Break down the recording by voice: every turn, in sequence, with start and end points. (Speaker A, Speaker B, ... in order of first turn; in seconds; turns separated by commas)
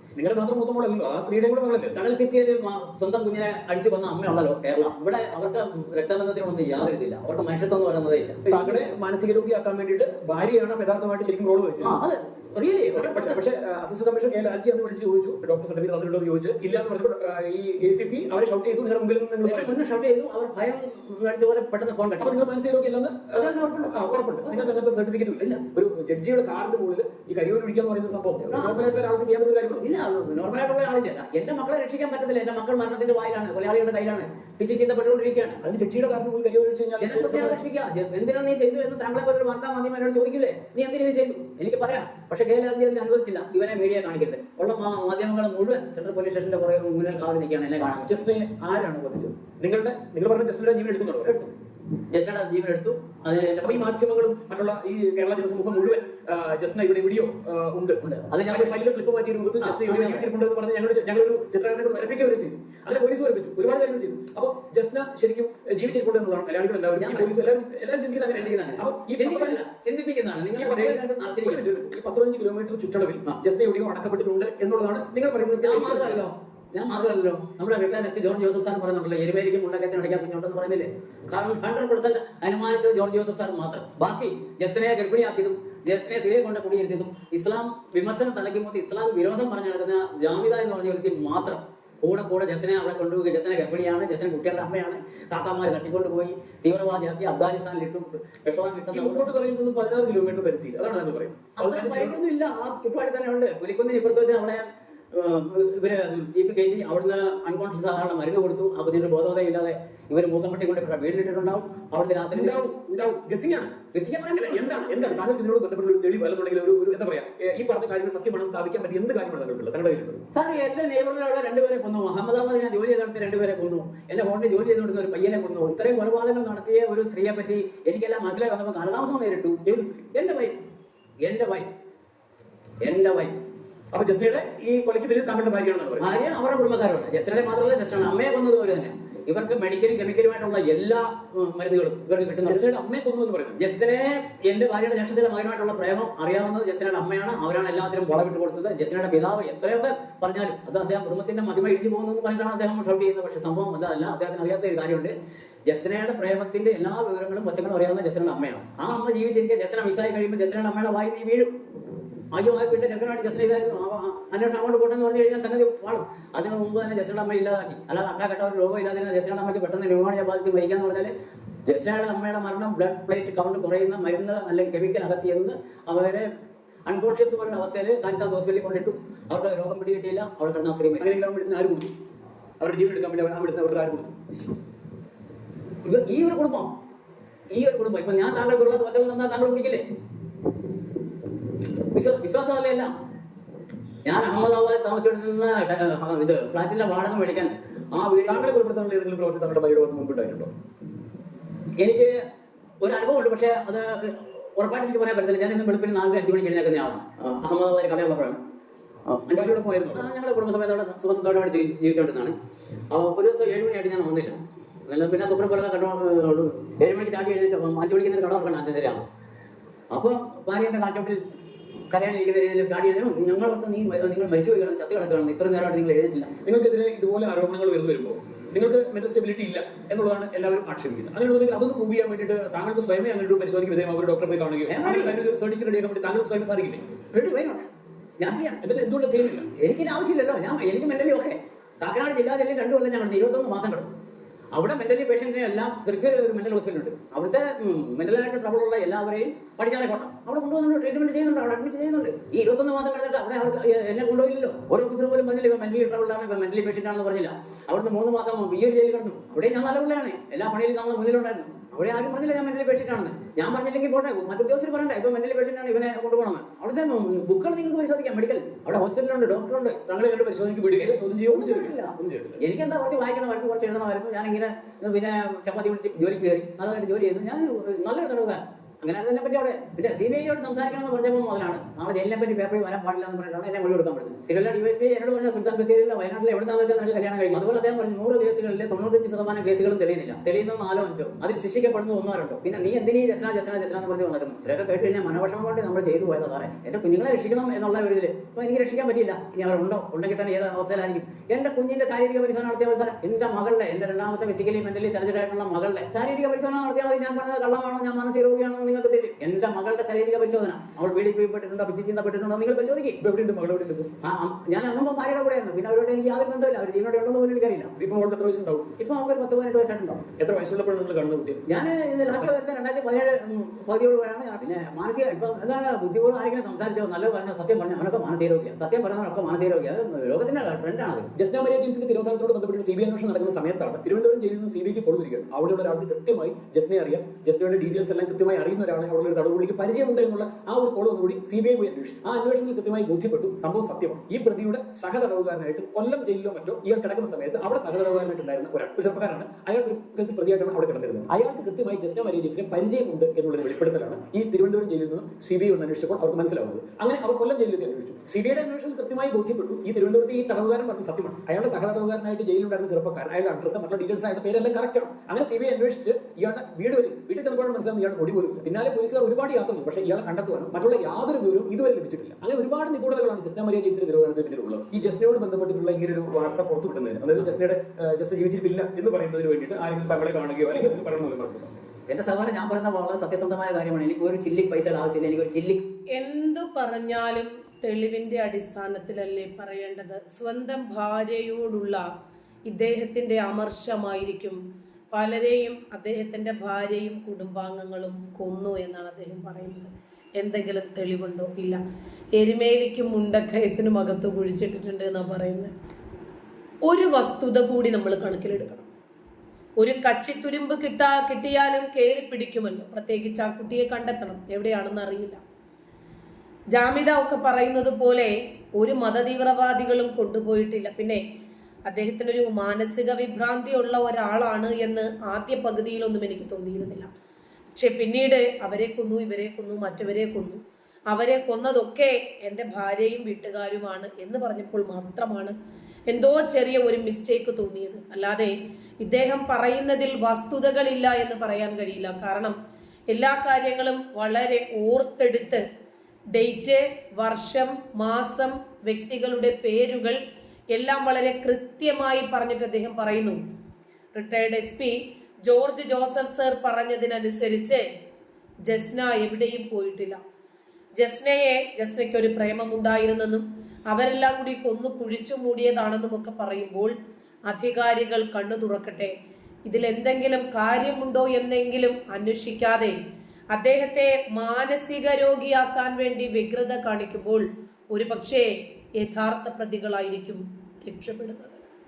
Speaker A: 0.2-2.0, Speaker B: 1.9-8.6, Speaker A: 8.5-12.0, Speaker B: 11.8-13.4, Speaker A: 12.9-19.8, Speaker B: 19.4-22.4, Speaker A: 22.2-29.8, Speaker B: 23.3-24.7, Speaker B: 28.5-28.8, Speaker B: 29.8-35.6, Speaker A: 35.6-37.6, Speaker B: 37.0-48.1, Speaker A: 48.1-51.5, Speaker B: 52.1-53.9, Speaker A: 53.6-69.6, Speaker B: 58.0-58.9, Speaker B: 59.6-60.3, Speaker B: 67.0-67.3, Speaker B: 68.3-71.7, Speaker A: 70.5-76.2, Speaker B: 75.6-99.3, Speaker A: 98.9-102.2, Speaker B: 101.6-112.6, Speaker A: 112.3-113.7, Speaker B: 113.9-115.1, Speaker A: 114.4-120.2, Speaker B: 120.3-129.6, Speaker A: 129.6-130.1, Speaker B: 130.1-130.6, Speaker B: 131.2-131.7, Speaker B: 132.8-133.4, Speaker A: 133.9-136.1, Speaker B: 136.0-142.6, Speaker A: 142.5-143.6, Speaker B: 143.6-155.1, Speaker B: 155.7-161.5, Speaker B: 162.3-171.1, Speaker B: 171.7-176.3, Speaker B: 176.8-181.1, Speaker A: 181.0-181.9, Speaker A: 182.6-184.1, Speaker B: 185.8-186.7, Speaker B: 187.5-189.8, Speaker B: 191.9-192.9, Speaker B: 194.0-198.5, Speaker A: 198.2-200.5, Speaker B: 201.8-202.1, Speaker B: 202.8-208.4, Speaker B: 209.1-212.3, Speaker A: 209.3-210.1, Speaker B: 212.9-214.4, Speaker B: 214.9-219.1, Speaker B: 219.9-221.2, Speaker B: 221.9-226.3, Speaker A: 226.4-236.8, Speaker B: 234.7-235.2, Speaker B: 237.1-238.6, Speaker A: 238.6-239.5, Speaker B: 239.5-243.9, Speaker B: 244.5-269.8, Speaker A: 269.9-272.4, Speaker B: 271.3-313.0, Speaker A: 313.0-313.9, Speaker B: 314.0-317.7, Speaker A: 317.8-318.7, Speaker B: 318.8-320.0, Speaker A: 320.2-321.4, Speaker B: 321.5-331.1, Speaker A: 331.1-381.5, Speaker B: 381.9-385.6, Speaker C: 385.9-391.8, Speaker C: 392.4-394.4, Speaker C: 394.9-401.6, Speaker C: 402.1-405.5, Speaker C: 406.6-408.7, Speaker C: 409.6-415.2, Speaker C: 416.5-421.0, Speaker C: 421.7-426.9, Speaker C: 427.5-435.3, Speaker C: 435.9-442.4, Speaker C: 442.9-445.4, Speaker C: 446.1-450.0, Speaker C: 450.5-453.2, Speaker C: 453.9-457.6, Speaker C: 458.5-460.0, Speaker C: 460.8-466.7, Speaker C: 467.3-468.9, Speaker C: 469.5-472.7, Speaker C: 473.3-481.4